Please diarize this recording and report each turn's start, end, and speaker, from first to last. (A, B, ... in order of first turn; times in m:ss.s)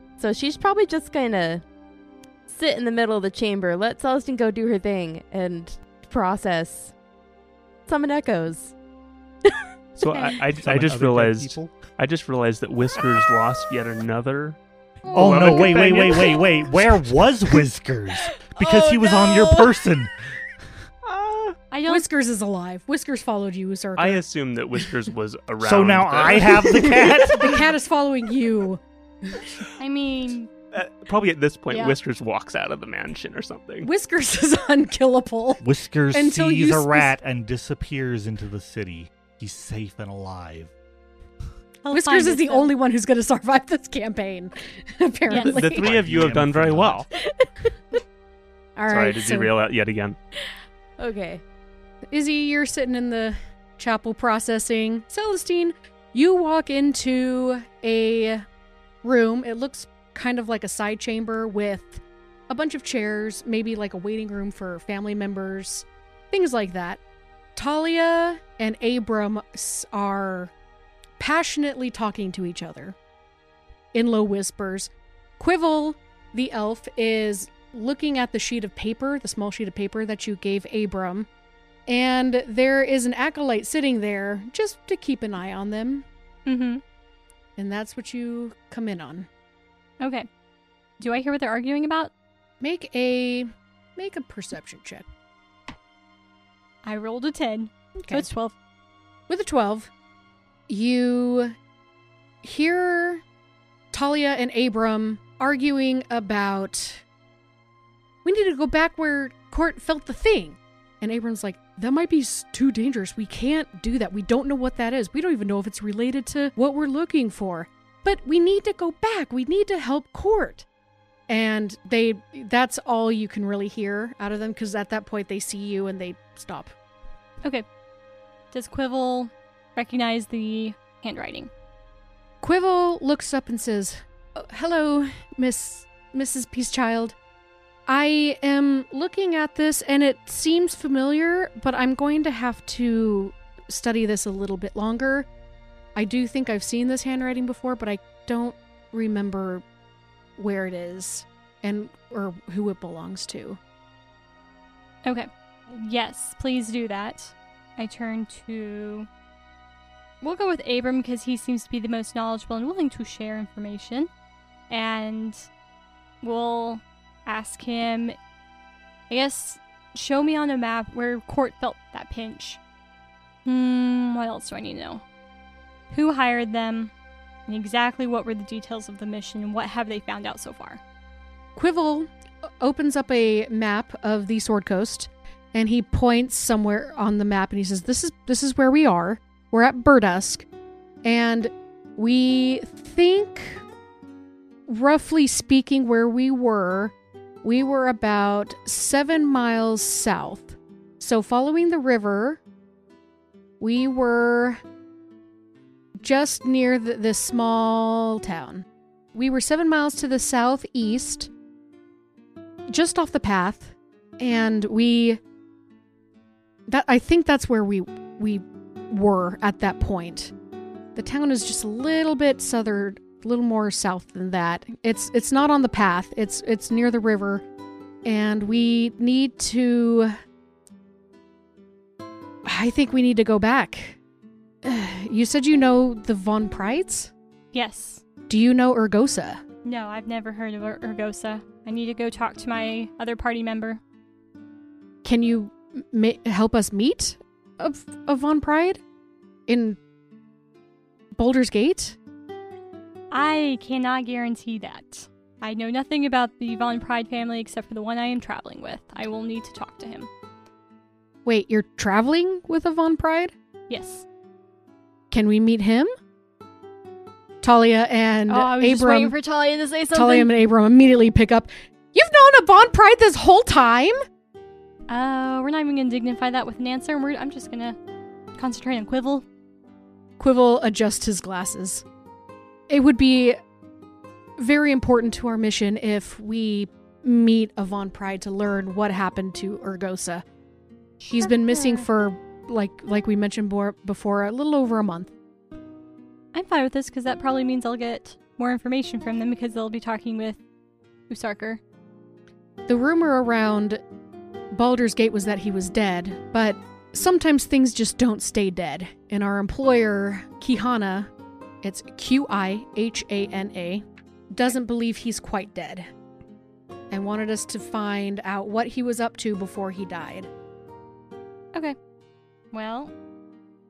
0:00.2-0:01.6 A
0:02.5-0:07.0 A
0:07.9-0:08.8 A
0:10.0-0:16.4 B
0:10.5-0:11.8 C
0:15.1-0:20.1 C
0:18.6-0:19.6 A
0:21.0-0:21.6 B
0:21.7-0:22.1 D
0:21.9-0:24.2 E
0:24.0-0:27.6 B
0:25.6-0:27.6 C
0:26.8-0:29.5 E
0:29.8-0:30.5 D
0:30.7-0:33.9 B
0:33.8-0:37.1 E
0:35.6-0:40.7 C
0:41.8-0:42.7 D
0:41.9-0:45.9 E
0:45.3-0:45.6 D
0:45.3-0:47.1 B
0:45.7-0:47.0 C
0:47.4-0:47.6 A
0:48.8-0:49.5 E
0:48.9-0:50.2 B
0:50.4-0:51.4 A
0:52.1-0:58.4 E
0:59.0-1:07.0 E
1:07.6-1:10.5 E
1:11.2-1:13.0 E
1:13.9-1:21.3 E
1:21.9-1:26.0 E
1:26.5-1:26.8 D
1:27.6-1:29.3 E
1:30.0-1:30.3 D
1:31.0-1:32.1 D
1:32.6-1:35.1 E
1:36.8-1:38.6 D
1:38.0-1:38.3 E
1:39.3-1:39.9 E
1:40.7-1:41.6 E
1:42.4-1:43.2 E
1:43.9-1:47.0 E
1:48.2-2:00.6 E
2:01.3-2:06.7 E
2:08.5-2:11.5 D
2:12.4-2:17.2 E
2:17.9-2:25.3 E
2:26.0-2:29.6 E
2:30.4-2:33.6 E
2:35.0-2:39.1 D
2:40.2-2:44.1 D
2:44.7-2:45.5 D
2:46.2-2:48.2 D
2:49.1-2:52.6 D
2:53.5-2:55.0 D
2:55.9-2:56.9 D
2:57.5-3:00.8 D
3:01.6-3:02.1 E
3:02.6-3:10.5 E
3:11.0-3:13.6 E
3:14.7-3:22.4 E
3:23.6-3:24.6 E
3:26.0-3:31.3 E
3:32.7-3:35.2 E
3:36.7-3:40.3 E
3:41.0-3:47.4 E
3:48.0-3:50.1 E
3:52.4-3:54.0 E
3:54.6-3:57.1 E
3:57.5-3:58.0 D
3:58.3-3:59.4 E
3:59.6-4:03.8 D
4:05.0-4:08.8 E
4:09.5-4:09.8 E
4:11.2-4:12.0 E
4:13.1-4:20.1 D
4:21.2-4:23.3 E
4:23.7-4:24.1 D
4:25.1-4:25.9 E
4:27.4-4:29.1 E
4:28.3-4:30.3 D
4:29.9-4:34.0 E
4:34.9-4:37.8 D
4:38.4-4:39.2 D
4:40.2-4:41.8 E
4:42.7-4:43.4 E
4:44.4-4:50.2 E
4:51.0-4:51.9 D
4:51.1-4:55.1 E
4:56.3-5:00.4 D
5:01.1-5:01.6 D
5:02.7-5:03.8 E
5:04.5-5:11.1 E
5:11.6-5:15.9 E
5:16.9-5:20.3 E
5:22.5-5:22.9 D